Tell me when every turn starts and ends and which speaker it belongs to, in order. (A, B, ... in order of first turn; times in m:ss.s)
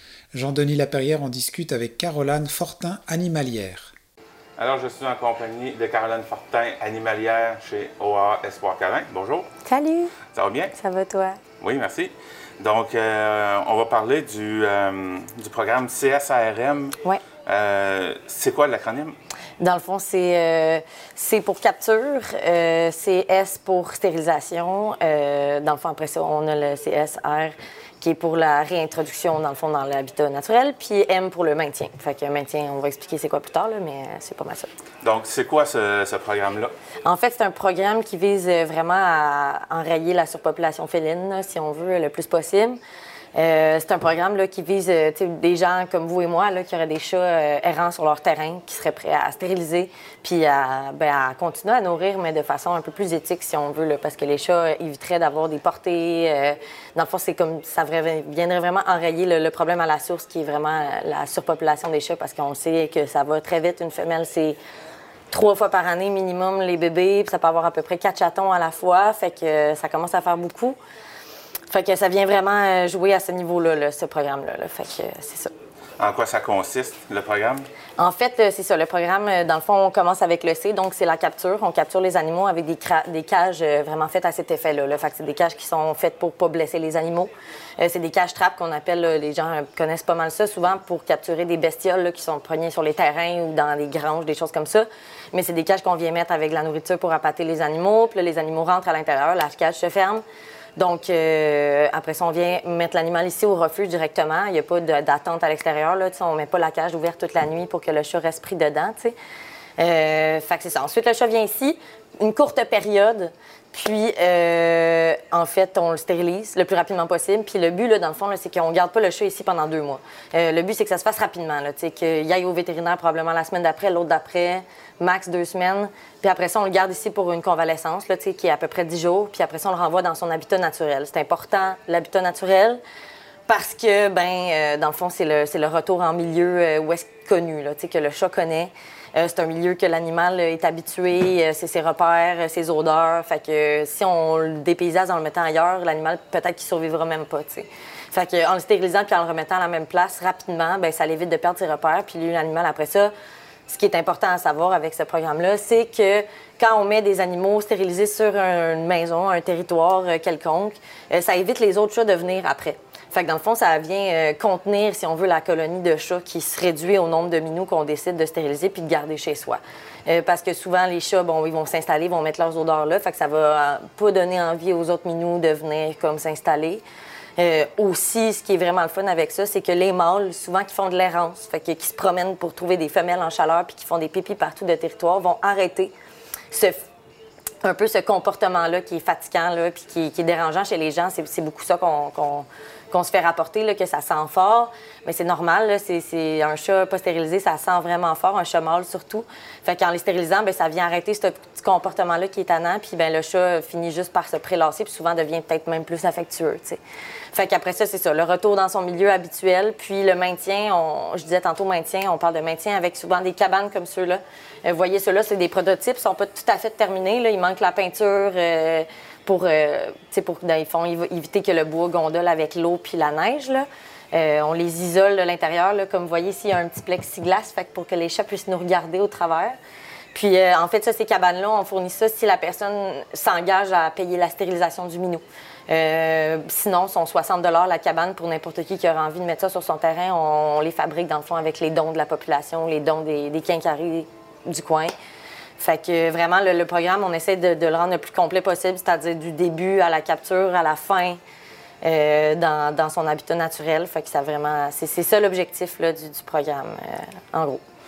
0:00.3-0:03.9 A
0:04.6-0:09.5 B
0:09.6-0:10.1 C
0:10.3-0:10.7 B
0:10.7-0:11.4 C
0:11.6-0:16.9 B
0:17.5-0:19.2 B
0:19.6-0:34.7 C
0:35.0-0:36.7 B
0:37.0-0:42.8 C
0:43.4-1:04.6 C
1:05.3-1:10.8 C
1:11.7-1:15.5 C
1:16.0-1:17.7 B
1:18.0-1:40.2 C
1:40.8-1:49.2 C
1:49.8-2:12.8 C
2:13.5-2:33.1 C
2:33.7-2:56.8 C
2:57.4-3:05.9 C
3:06.5-3:06.8 C
3:07.6-3:26.8 C
3:27.3-3:49.6 C
3:50.1-4:04.9 C
4:05.6-4:11.2 C
4:11.8-4:17.6 C